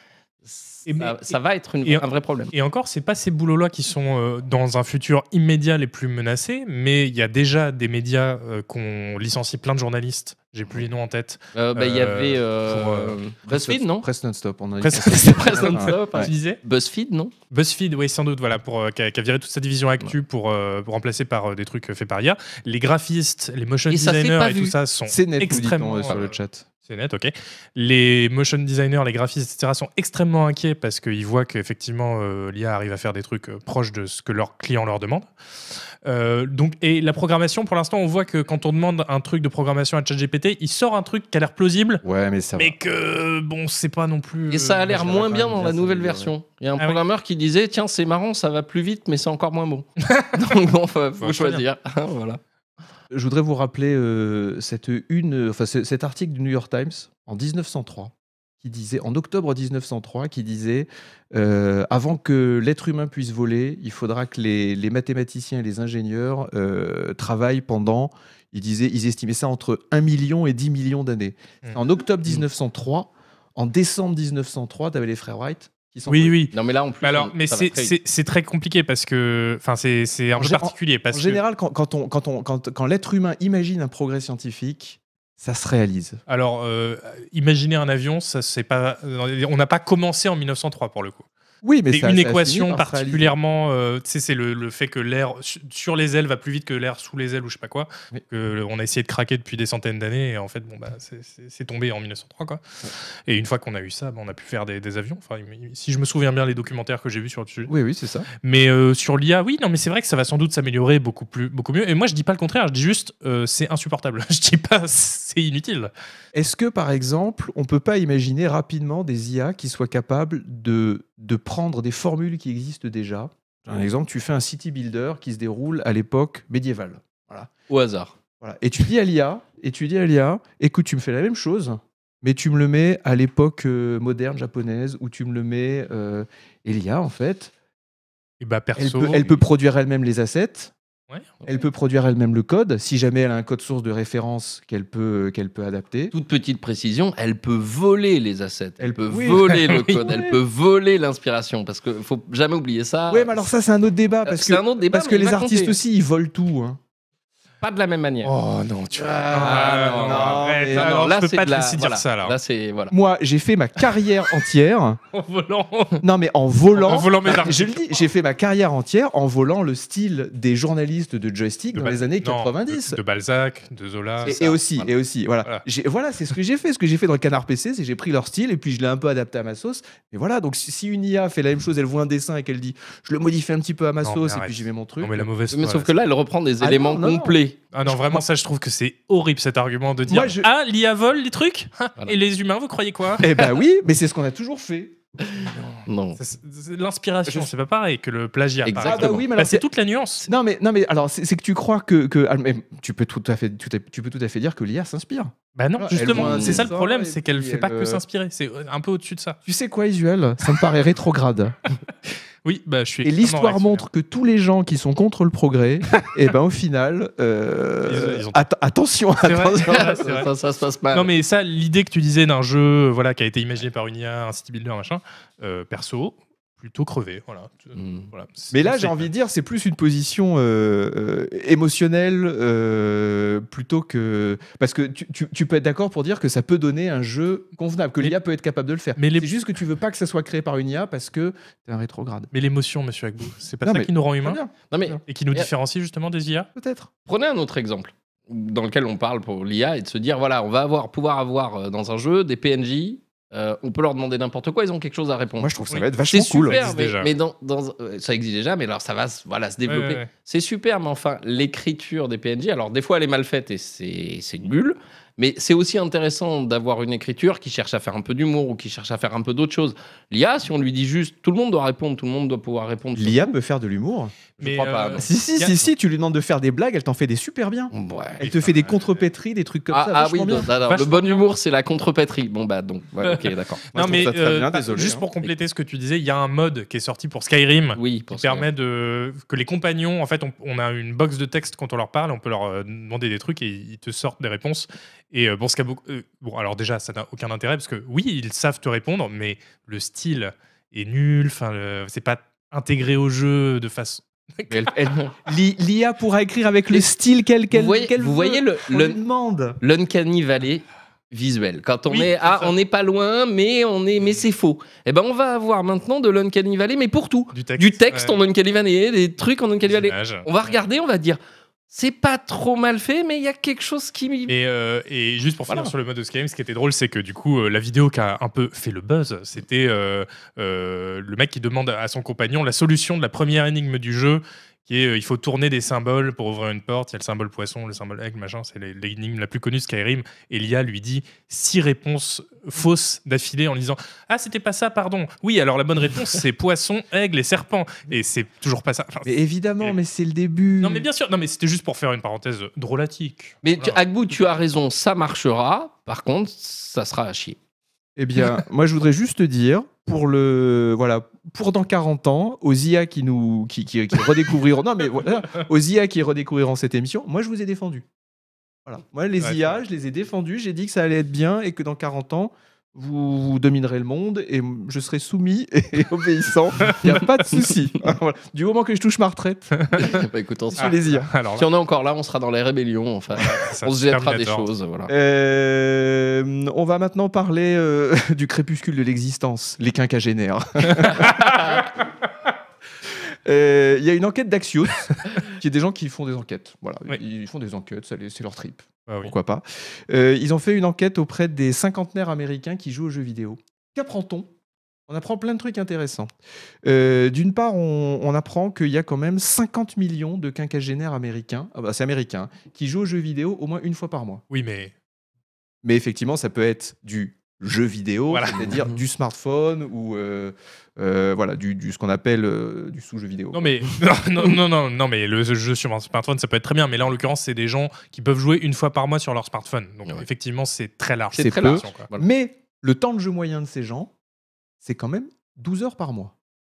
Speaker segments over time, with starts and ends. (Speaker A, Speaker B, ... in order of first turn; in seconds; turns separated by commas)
Speaker A: 0.5-2.5, Speaker B: 0.8-13.2, Speaker A: 11.5-14.1, Speaker C: 13.4-16.3, Speaker B: 14.8-16.6, Speaker A: 15.0-17.3, Speaker B: 17.5-35.3, Speaker A: 23.9-24.7, Speaker C: 25.1-26.6, Speaker B: 36.0-42.0, Speaker C: 42.0-42.7, Speaker B: 42.5-45.3, Speaker A: 44.5-52.4, Speaker C: 44.9-46.3, Speaker B: 50.0-50.5, Speaker B: 51.2-51.6, Speaker C: 53.1-76.4, Speaker B: 76.1-81.4, Speaker A: 76.5-78.0, Speaker C: 80.3-86.2, Speaker B: 86.3-91.2, Speaker C: 91.6-93.3, Speaker B: 91.9-102.6, Speaker B: 103.3-107.7, Speaker C: 107.7-108.3, Speaker B: 108.4-115.9, Speaker C: 116.3-127.5, Speaker A: 127.7-128.1, Speaker C: 128.4-137.5, Speaker B: 138.4-139.4, Speaker C: 138.8-140.7, Speaker C: 141.4-146.1, Speaker A: 146.1-153.4, Speaker C: 148.8-150.4, Speaker B: 149.5-150.1, Speaker C: 153.1-156.8, Speaker A: 154.2-155.8, Speaker A: 157.6-158.3, Speaker B: 158.2-162.4, Speaker C: 159.2-161.0, Speaker A: 159.3-162.9, Speaker C: 162.9-165.0, Speaker B: 165.1-166.0, Speaker C: 166.0-173.0, Speaker B: 166.7-168.0, Speaker B: 171.7-174.4, Speaker A: 174.2-174.9, Speaker C: 174.2-185.3, Speaker B: 184.0-185.9, Speaker A: 185.5-187.6, Speaker C: 186.6-188.2, Speaker B: 187.7-193.3, Speaker C: 190.1-190.5, Speaker C: 193.2-195.3, Speaker A: 195.3-196.2, Speaker B: 196.2-200.3, Speaker A: 198.6-199.2, Speaker C: 198.8-199.6, Speaker C: 200.2-208.0, Speaker B: 205.5-209.4, Speaker A: 206.0-206.7, Speaker C: 209.4-211.6, Speaker B: 212.4-213.8, Speaker C: 213.0-220.0, Speaker B: 217.8-218.4, Speaker B: 219.2-220.3, Speaker A: 219.7-221.1, Speaker B: 220.9-229.1, Speaker A: 227.7-228.1, Speaker C: 228.5-242.3, Speaker B: 239.0-239.3, Speaker B: 242.3-244.4, Speaker C: 243.6-245.0, Speaker A: 244.7-245.5, Speaker B: 245.1-246.5, Speaker C: 246.6-246.9, Speaker A: 247.1-273.3, Speaker C: 255.4-256.6, Speaker B: 255.7-257.1, Speaker B: 259.6-260.1, Speaker C: 272.9-274.3, Speaker B: 274.4-275.7, Speaker A: 274.4-275.1, Speaker C: 274.9-280.5, Speaker A: 277.7-278.3, Speaker B: 278.2-279.0, Speaker A: 279.7-283.6, Speaker B: 280.6-281.2, Speaker C: 282.9-285.1, Speaker B: 283.1-304.8, Speaker A: 287.7-288.5, Speaker C: 304.5-309.6, Speaker A: 304.9-305.1, Speaker A: 307.5-309.0, Speaker A: 309.6-324.3, Speaker B: 311.9-312.5, Speaker B: 317.3-318.2, Speaker B: 319.6-320.3, Speaker B: 324.3-349.8, Speaker C: 349.0-350.9, Speaker B: 350.6-353.8, Speaker A: 353.4-357.4, Speaker C: 357.9-367.8, Speaker C: 368.6-379.8, Speaker B: 369.2-369.6, Speaker B: 376.6-377.0, Speaker B: 379.5-380.0, Speaker A: 379.7-380.8, Speaker C: 380.5-381.1, Speaker B: 380.6-381.5, Speaker A: 381.3-384.9, Speaker B: 383.1-384.5, Speaker C: 384.9-391.6, Speaker B: 390.7-391.6, Speaker C: 393.2-404.3, Speaker B: 398.9-399.1, Speaker C: 404.9-406.1, Speaker C: 406.6-414.2, Speaker B: 414.3-414.7, Speaker C: 415.6-423.5, Speaker B: 418.1-418.5, Speaker A: 418.4-418.8, Speaker B: 423.3-431.9, Speaker A: 431.1-432.1, Speaker C: 431.2-433.9, Speaker C: 434.6-436.1